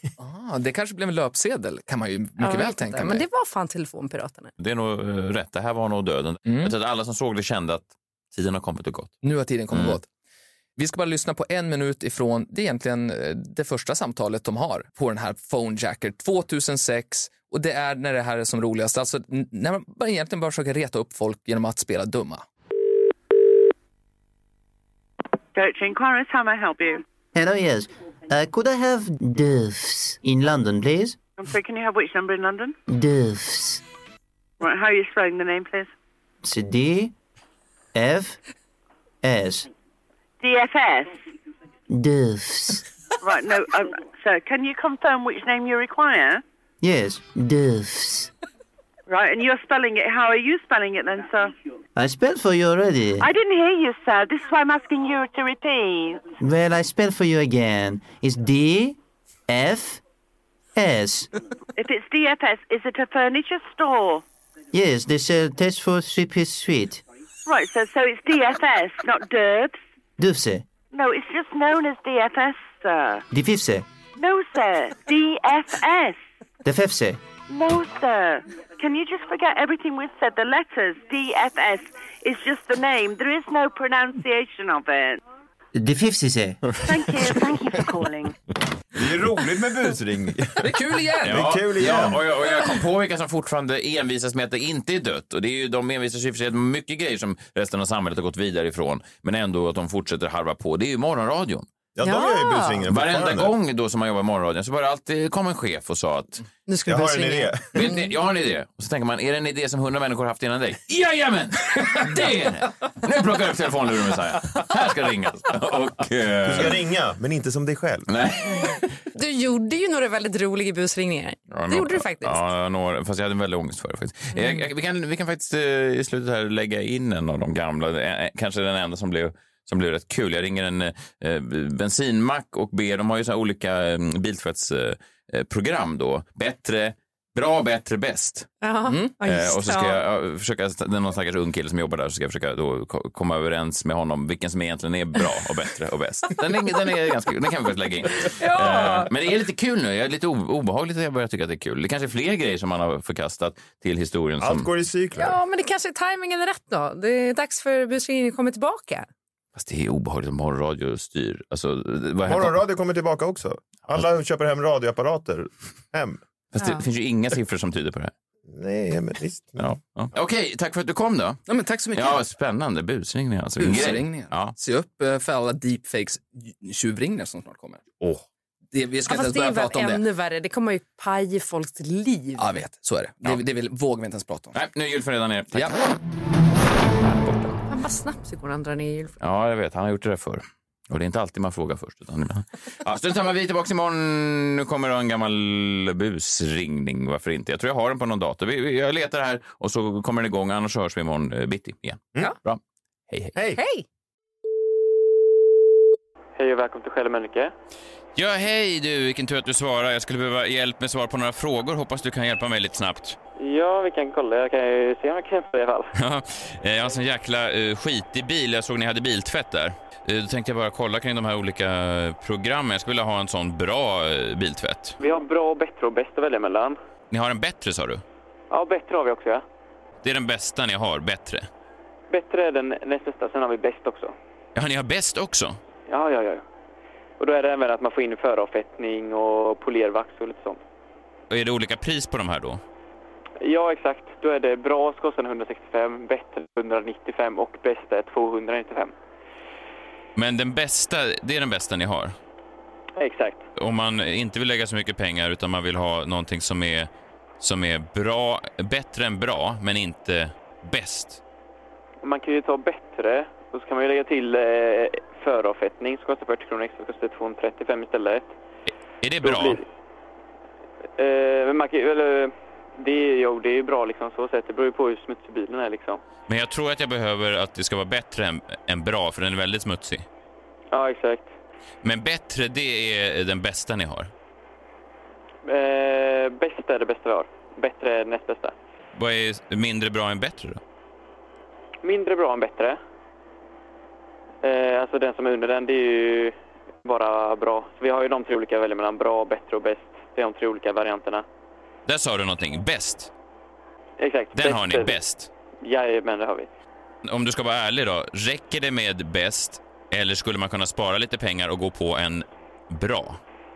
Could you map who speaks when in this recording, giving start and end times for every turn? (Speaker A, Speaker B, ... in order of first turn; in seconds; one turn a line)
Speaker A: 0.2-3.2
Speaker B: 2.4-4.5
Speaker C: 4.6-10.0
Speaker A: 6.5-6.7
Speaker A: 9.2-10.1
Speaker A: 10.8-22.4
Speaker D: 25.5-27.0
Speaker E: 27.3-31.2
Speaker D: 31.4-32.8
Speaker E: 32.9-33.8
Speaker D: 34.6-35.9
Speaker E: 36.4-37.1
Speaker E: 37.9-38.4
Speaker E: 39.2-39.7
Speaker D: 40.4-41.2
Speaker E: 41.9-42.9
Speaker D: 43.2-46.4
Speaker E: 46.8-48.3
Speaker D: 49.1-51.5
Speaker E: 52.0-53.3
Speaker D: 53.2-56.3
Speaker E: 56.4-60.0
Speaker E: 60.7-61.3
Speaker D: 61.8-64.2
Speaker E: 64.7-67.0
Speaker D: 67.5-69.8
Speaker E: 70.2-70.7
Speaker D: 70.9-73.2
Speaker E: 73.3-73.8
Speaker D: 74.2-76.2
Speaker E: 76.6-77.2
Speaker D: 77.5-85.2
Speaker E: 85.7-86.6
Speaker D: 86.8-88.3
Speaker F: 88.9-90.7
Speaker A: 90.6-91.6
Speaker F: 91.2-92.2
Speaker C: 91.2-101.7
Speaker F: 102.0-103.5
Speaker B: 102.0-102.9
Speaker C: 102.9-106.4
Speaker B: 106.7-108.0
Speaker F: 106.8-107.9
Speaker C: 107.7-116.8
Speaker F: 116.4-118.1
Speaker C: 118.1-118.9
Speaker B: 119.1-122.4
Speaker C: 121.5-138.5
Speaker B: 124.3-124.6
Speaker B: 138.6-140.0
Speaker A: 138.8-139.1
Speaker C: 139.2-154.7
Speaker B: 148.2-149.1
Speaker F: 154.4-155.4
Speaker B: 155.2-159.1
Speaker C: 159.5-162.6
Speaker F: 162.2-166.2
Speaker C: 166.5-168.1
Speaker F: 168.4-169.7
Speaker C: 169.6-171.4
Speaker A: 171.5-172.2
Speaker C: 171.9-174.5
Speaker A: 173.6-177.8
Speaker A: 178.7-180.0
Speaker B: 179.1-182.5
Speaker A: 182.4-184.6
Speaker C: 184.5-185.9
Speaker A: 185.5-185.8
Speaker B: 187.7-189.1
Speaker C: 189.2-202.6
Speaker B: 203.5-203.8
Speaker G: 206.3-207.5
Speaker C: 208.1-213.2
Speaker G: 213.4-215.9
Speaker C: 215.9-225.0
Speaker G: 225.0-226.8
Speaker C: 227.1-228.0
Speaker G: 228.5-229.4
Speaker C: 230.0-231.5
Speaker G: 232.1-234.1
Speaker C: 234.5-235.6
Speaker G: 235.9-236.4
Speaker G: 237.2-240.6
Speaker C: 241.3-242.6
Speaker G: 243.4-248.9
Speaker C: 250.2-252.1
Speaker G: 252.9-253.4
Speaker C: 253.6-256.9
Speaker C: 257.4-261.2
Speaker G: 262.0-268.3
Speaker C: 269.0-269.6
Speaker G: 269.2-269.6
Speaker G: 271.0-276.0
Speaker C: 276.3-280.0
Speaker G: 280.7-281.3
Speaker C: 281.8-284.1
Speaker G: 285.4-288.5
Speaker C: 288.9-290.6
Speaker G: 291.8-292.8
Speaker G: 294.4-301.2
Speaker C: 301.9-303.1
Speaker G: 304.0-304.9
Speaker C: 304.3-305.3
Speaker G: 305.6-306.5
Speaker C: 307.0-313.2